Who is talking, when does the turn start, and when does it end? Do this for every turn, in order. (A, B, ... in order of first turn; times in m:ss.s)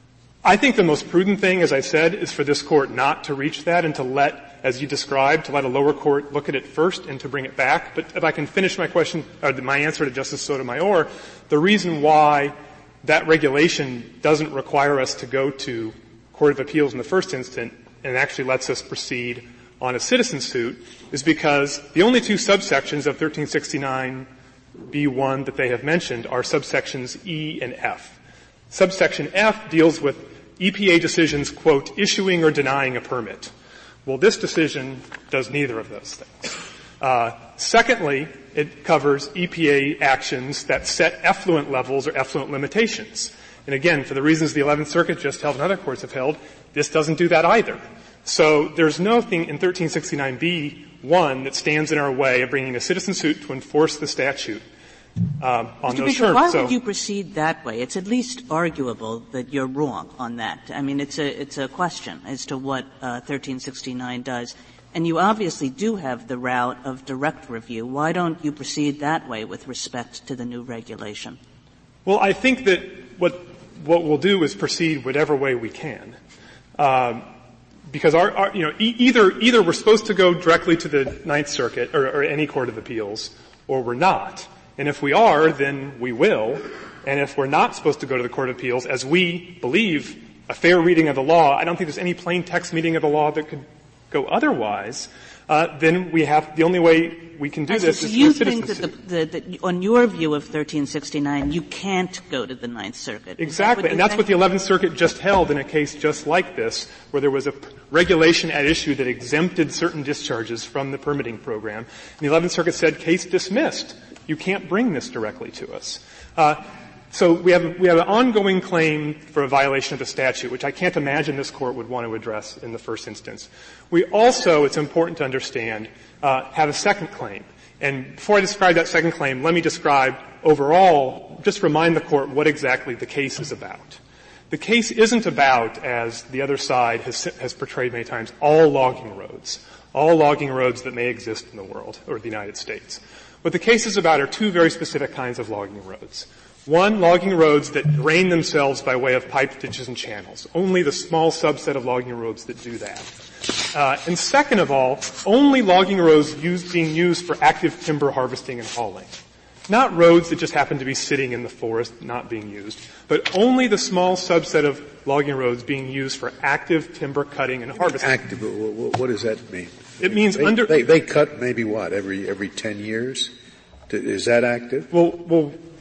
0:00.4-0:24.3 A
0:24.9-0:28.1 A
0:28.7-0:33.5 A
0:34.0-0:54.6 A
0:55.4-0:56.7 A
0:55.8-1:11.4 B
1:12.0-1:16.2 A
1:16.8-1:17.3 A
1:17.9-1:38.9 A
1:37.7-1:44.2 B
1:43.4-2:14.0 A
2:14.5-2:33.1 A
2:33.7-2:39.2 A
2:39.7-2:48.1 A
2:47.8-2:53.3 C
2:50.0-2:50.8 A
2:53.9-2:54.9 C
2:54.9-2:55.6 A